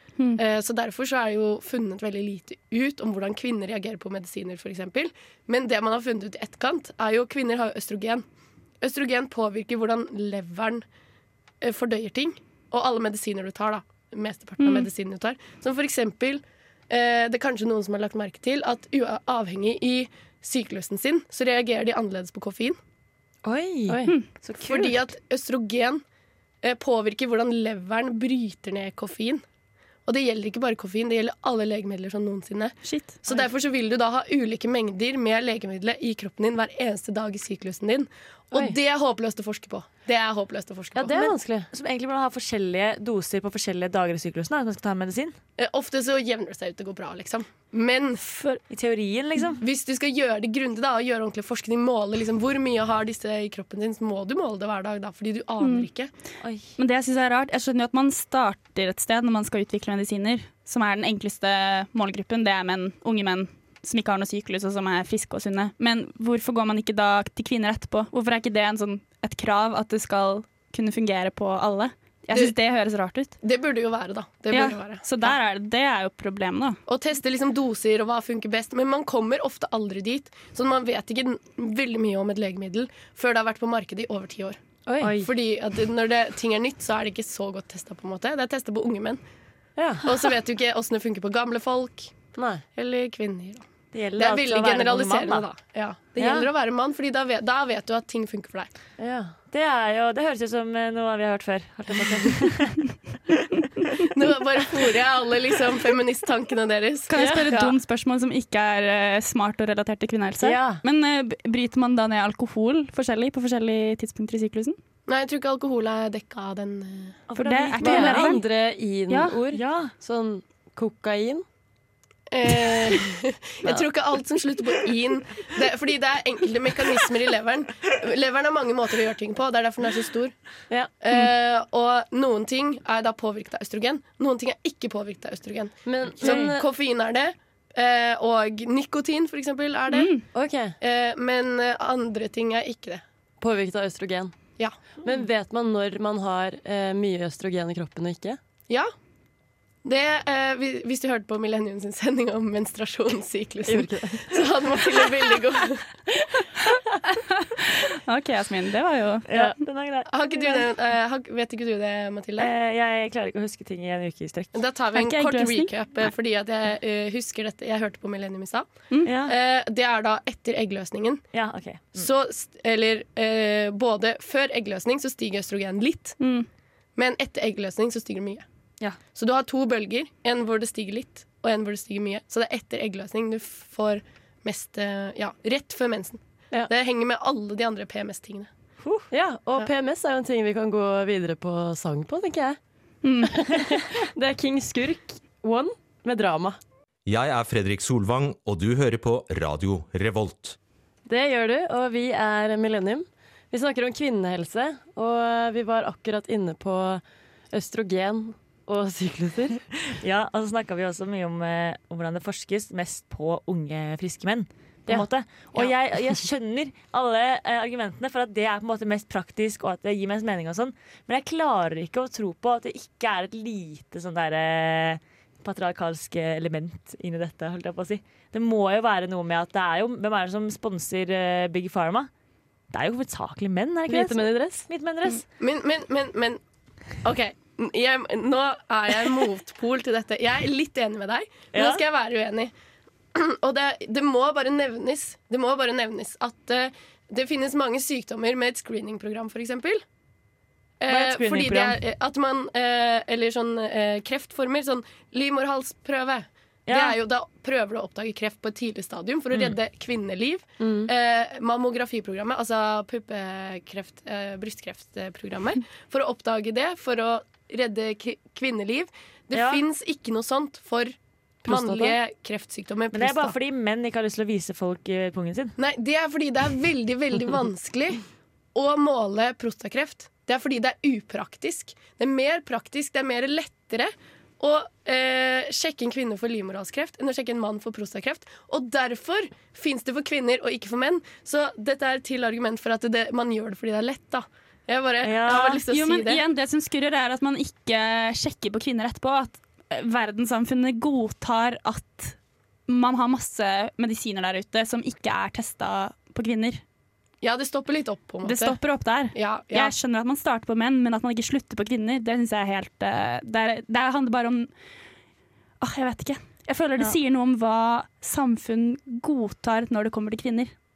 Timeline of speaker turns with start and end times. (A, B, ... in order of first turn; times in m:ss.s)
0:00.4-0:08.2 A
0:08.8-0:10.8 A
0:11.6-0:22.8 A
0:14.6-0:14.9 B
0:23.4-0:25.0 C
0:23.9-0:24.2 D
0:24.6-0:26.0 A
0:26.6-0:29.4 A
0:30.1-0:41.2 A
0:32.8-0:33.2 B
0:41.0-0:41.7 D
0:41.2-0:45.4 C
0:45.6-0:48.2 A
0:48.3-0:48.6 B
0:48.7-0:49.6 C
0:49.6-0:56.1 A
0:55.6-0:55.9 B
0:56.8-1:13.4 B
1:13.4-1:15.4 A
1:14.5-1:16.8 B
1:16.9-1:29.2 A
1:24.9-1:25.3 D
1:29.8-1:30.1 D
1:30.0-1:32.2 A
1:32.4-1:32.6 D
1:32.8-1:33.7 A
1:33.9-1:35.4 C
1:34.2-1:38.7 A
1:39.0-1:39.3 D
1:39.5-1:42.8 C
1:44.1-1:47.8 A
1:47.1-1:54.8 B
1:47.1-1:47.5 D
1:50.4-1:50.8 D
1:55.1-1:57.2 A
1:57.3-1:58.4 C
1:57.4-1:58.4 B
1:57.8-2:01.4 D
1:59.1-1:59.4 B
1:59.5-1:59.9 C
2:02.3-2:10.3 A
2:11.0-2:20.2 A
2:15.8-2:16.7 D
2:16.2-2:16.5 C
2:19.9-2:20.2 B
2:20.3-2:20.8 D
2:20.8-2:23.0 A
2:23.4-2:24.4 D
2:25.0-2:28.4 D
2:29.8-2:35.9 A
2:33.7-2:34.4 D
2:37.1-2:39.3 B
2:39.3-2:40.1 C
2:40.1-2:42.5 A
2:42.4-2:44.6 C
2:44.5-2:48.7 A
2:45.0-2:45.7 B
2:49.0-2:49.3 C
2:49.2-2:51.2 A
2:51.3-2:52.1 C
2:52.0-2:56.2 A
2:56.2-2:56.5 B
2:57.0-2:58.4 A
2:59.2-3:08.5 A
3:08.8-3:09.1 C
3:09.1-3:12.6 D
3:13.0-3:13.4 B
3:13.2-3:16.6 D
3:17.1-3:20.6 E
3:21.1-3:29.6 D
3:29.9-3:52.1 C
3:34.9-3:35.7 D
3:52.7-3:55.2 C
3:53.9-3:54.7 D
3:55.4-3:56.4 A
3:57.0-4:02.5 A
4:01.5-4:01.8 C
4:03.2-4:09.8 A
4:10.8-4:31.0 A
4:10.9-4:11.8 C
4:16.7-4:17.0 C
4:20.6-4:20.9 D
4:29.3-4:29.6 C
4:31.4-4:32.0 D
4:31.5-4:33.4 A
4:32.9-4:35.6 C
4:35.6-4:38.0 A
4:38.6-4:56.2 A
4:55.0-4:55.6 C
4:55.4-5:02.1 B
5:02.7-5:06.6 B
5:07.2-5:08.6 A
5:08.2-5:14.5 B
5:09.1-5:09.7 A
5:15.6-5:20.5 B